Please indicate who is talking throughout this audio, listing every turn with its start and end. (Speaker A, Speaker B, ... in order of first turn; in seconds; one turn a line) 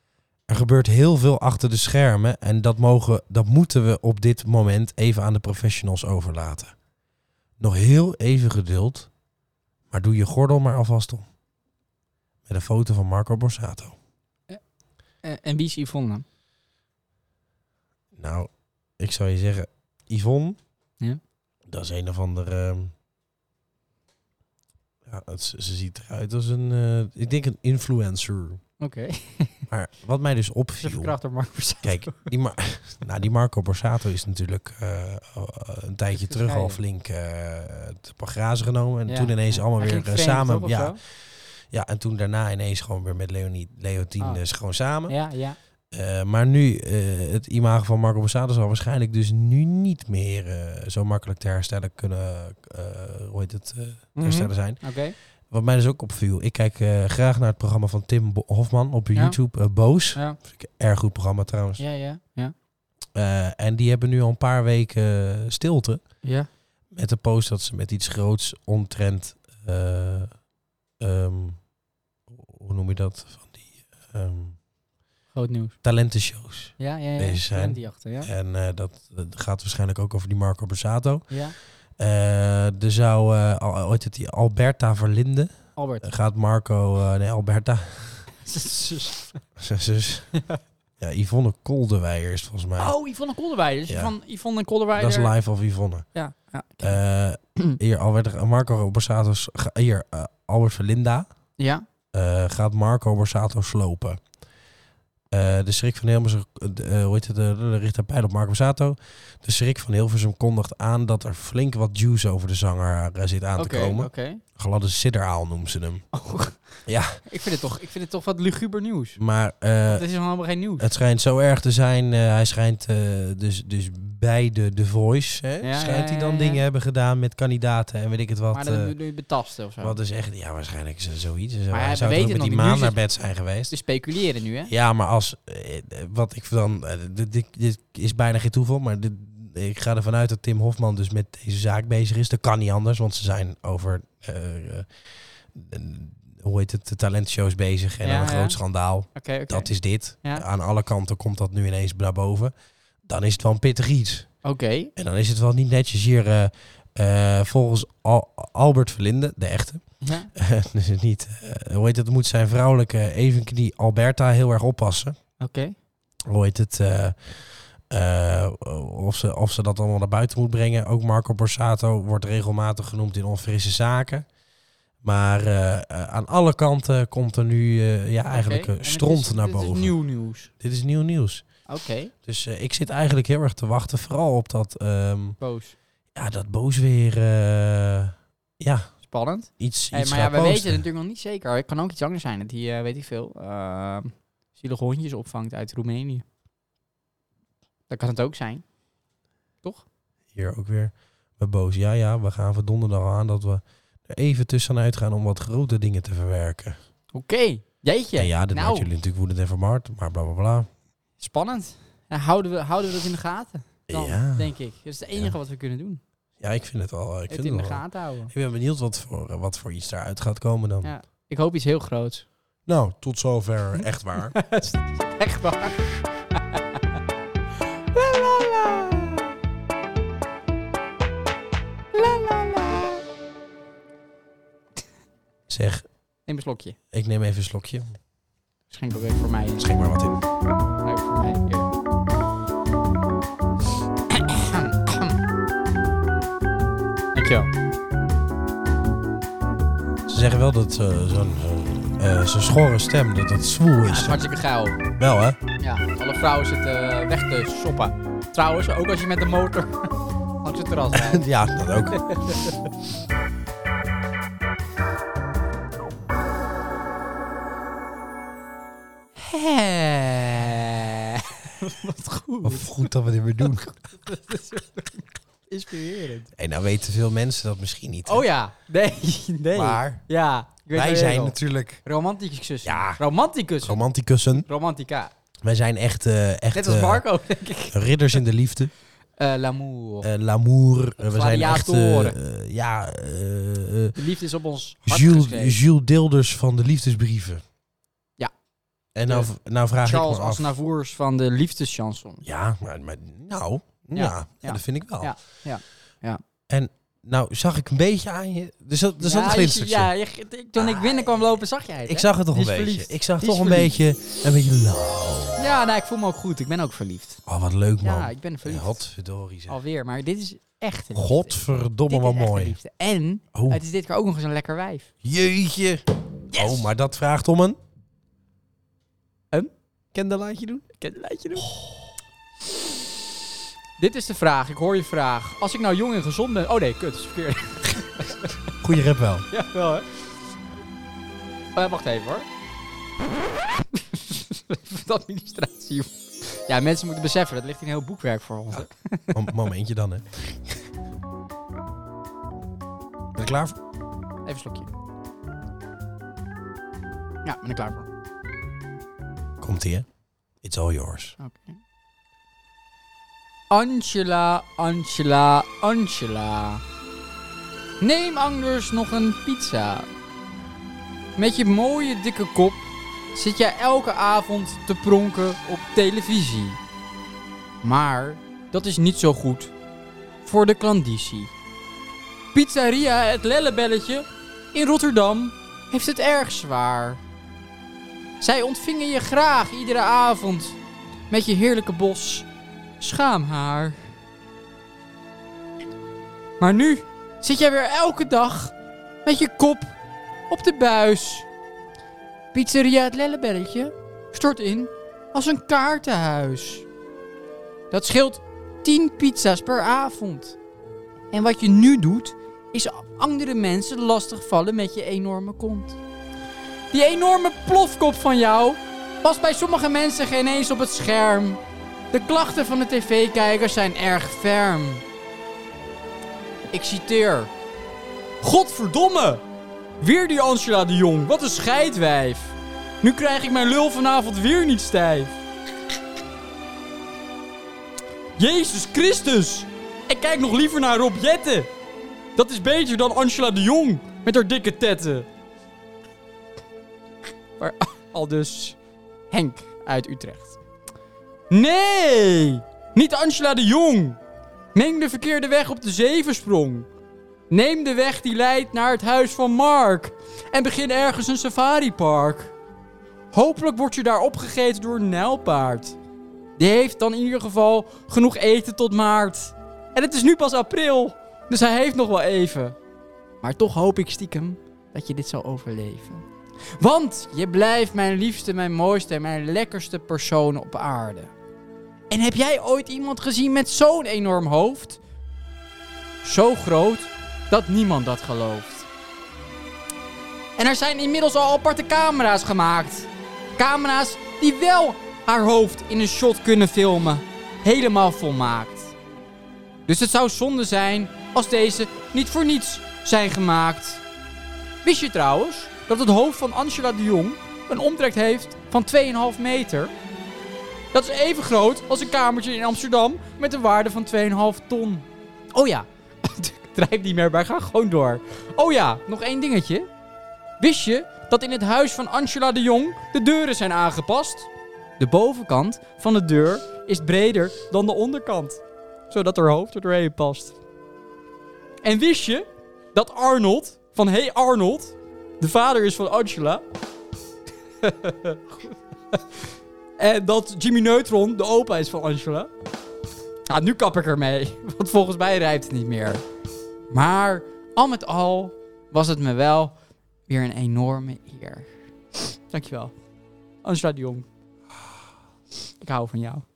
Speaker A: 0.5-6.7
Speaker A: 7.6-9.1
Speaker A: 9.9-11.2
Speaker A: 12.4-13.9
Speaker B: 15.2-16.2
Speaker A: 18.1-20.6
Speaker A: 21.6-22.9
Speaker A: 25.0-28.6
Speaker B: 28.8-29.6
Speaker A: 29.7-31.1
Speaker B: 30.8-32.3
Speaker A: 31.8-45.2
Speaker B: 36.1-36.8
Speaker B: 39.1-41.0
Speaker B: 45.0-45.6
Speaker A: 45.9-55.0
Speaker B: 54.1-55.1
Speaker A: 55.5-61.8
Speaker B: 61.8-62.5
Speaker A: 63.1-66.1
Speaker B: 66.2-66.5
Speaker A: 66.9-70.4
Speaker A: 71.0-71.7
Speaker A: 72.3-74.6
Speaker B: 75.3-75.8
Speaker A: 75.8-88.3
Speaker B: 76.8-78.3
Speaker B: 81.3-81.5
Speaker B: 85.8-86.0
Speaker B: 88.4-89.4
Speaker A: 89.6-90.4
Speaker A: 91.0-92.9
Speaker B: 92.8-95.3
Speaker A: 93.9-94.1
Speaker A: 95.0-96.1
Speaker B: 96.1-97.0
Speaker A: 96.8-101.3
Speaker B: 101.6-101.8
Speaker A: 102.1-104.2
Speaker A: 105.3-116.0
Speaker B: 113.5-114.4
Speaker B: 116.1-116.6
Speaker A: 116.8-117.2
Speaker B: 117.2-119.2
Speaker A: 119.2-120.0
Speaker B: 119.9-120.9
Speaker A: 120.8-128.9
Speaker B: 125.6-126.6
Speaker B: 128.5-130.0
Speaker A: 129.8-133.7
Speaker B: 131.7-133.0
Speaker B: 133.7-134.7
Speaker A: 134.7-154.3
Speaker B: 148.0-148.6
Speaker B: 149.1-150.4
Speaker B: 154.4-154.9
Speaker A: 154.9-165.2
Speaker B: 160.0-160.3
Speaker B: 165.4-165.7
Speaker A: 166.2-174.3
Speaker A: 175.0-180.0
Speaker B: 178.3-180.5
Speaker A: 180.5-185.4
Speaker B: 181.7-182.1
Speaker B: 185.4-185.8
Speaker A: 186.1-188.9
Speaker B: 189.0-196.2
Speaker A: 189.6-190.8
Speaker B: 197.9-198.6
Speaker A: 200.3-206.8
Speaker B: 207.1-208.9
Speaker A: 208.2-210.7
Speaker B: 211.2-216.0
Speaker A: 213.9-214.5
Speaker A: 216.4-220.9
Speaker B: 217.3-218.3
Speaker B: 220.8-222.2
Speaker A: 222.7-224.4
Speaker B: 223.8-226.8
Speaker B: 227.9-229.3
Speaker B: 231.9-233.0
Speaker A: 235.5-235.8
Speaker B: 236.3-236.8
Speaker A: 236.9-237.9
Speaker B: 238.7-239.7
Speaker A: 239.6-240.2
Speaker B: 240.8-241.7
Speaker B: 244.1-245.2
Speaker B: 247.1-247.5
Speaker A: 250.1-254.2
Speaker B: 253.8-254.8
Speaker A: 255.0-255.4
Speaker B: 255.6-259.9
Speaker B: 260.4-261.2
Speaker A: 260.9-262.4
Speaker B: 261.9-262.6
Speaker B: 269.2-272.9
Speaker A: 272.4-273.7
Speaker B: 273.4-276.3
Speaker A: 276.4-278.2
Speaker B: 278.1-285.1
Speaker A: 279.5-280.0
Speaker A: 280.7-281.8
Speaker A: 282.6-283.0
Speaker A: 283.6-284.5
Speaker A: 285.4-287.1
Speaker B: 286.5-287.8
Speaker A: 287.7-288.7
Speaker B: 289.2-290.1
Speaker A: 290.0-294.0
Speaker B: 291.0-292.1
Speaker B: 293.9-295.6
Speaker A: 294.8-297.4
Speaker A: 298.9-300.6
Speaker B: 299.8-302.2
Speaker A: 302.2-305.1
Speaker B: 303.9-306.2
Speaker A: 306.5-309.9
Speaker B: 309.0-313.7
Speaker A: 310.6-311.0
Speaker A: 311.9-315.4
Speaker B: 315.4-317.2
Speaker A: 317.2-319.6
Speaker B: 317.8-318.8
Speaker B: 319.5-324.9
Speaker A: 320.9-322.6
Speaker A: 323.3-323.6
Speaker A: 325.0-325.8
Speaker B: 326.3-326.7
Speaker A: 326.3-327.6
Speaker A: 329.9-330.6
Speaker B: 330.6-331.5
Speaker A: 331.4-331.7
Speaker B: 333.8-338.3
Speaker A: 338.6-339.3
Speaker B: 339.3-340.0
Speaker B: 341.5-342.3
Speaker B: 343.7-349.2
Speaker A: 348.5-350.5
Speaker A: 353.1-353.6
Speaker B: 354.2-354.7
Speaker B: 357.2-357.9
Speaker A: 359.4-359.9
Speaker A: 360.4-361.2
Speaker B: 361.2-361.6
Speaker B: 363.5-366.6
Speaker B: 367.8-369.9
Speaker B: 371.1-376.6
Speaker B: 377.6-379.5
Speaker B: 380.2-381.3
Speaker B: 382.3-387.0
Speaker B: 388.2-390.6
Speaker B: 391.1-392.2
Speaker B: 392.8-393.9
Speaker B: 396.4-399.7
Speaker B: 400.3-401.2
Speaker B: 402.3-406.6
Speaker B: 407.7-410.4
Speaker B: 411.1-415.8
Speaker B: 416.7-421.4
Speaker B: 421.9-424.8
Speaker B: 426.5-427.3
Speaker B: 428.2-429.2
Speaker B: 429.8-435.1
Speaker B: 438.2-441.5
Speaker B: 442.1-445.1
Speaker B: 447.4-448.6
Speaker B: 449.1-450.4
Speaker B: 451.3-454.0
Speaker B: 454.5-456.7
Speaker B: 457.3-462.3
Speaker B: 463.1-465.8
Speaker B: 466.4-472.6
Speaker B: 473.2-476.0
Speaker B: 476.6-481.1
Speaker B: 481.9-484.8
Speaker B: 486.0-488.7
Speaker B: 490.4-498.7
Speaker B: 499.7-503.8
Speaker B: 504.6-509.7
Speaker B: 510.7-519.7
Speaker B: 520.4-530.4
Speaker B: 531.6-536.4
Speaker B: 537.6-538.2
Speaker B: 539.8-542.3
Speaker B: 543.3-546.0
Speaker B: 546.7-549.5
Speaker B: 550.1-551.5
Speaker B: 552.0-552.7
Speaker B: 553.4-554.1
Speaker B: 555.6-556.2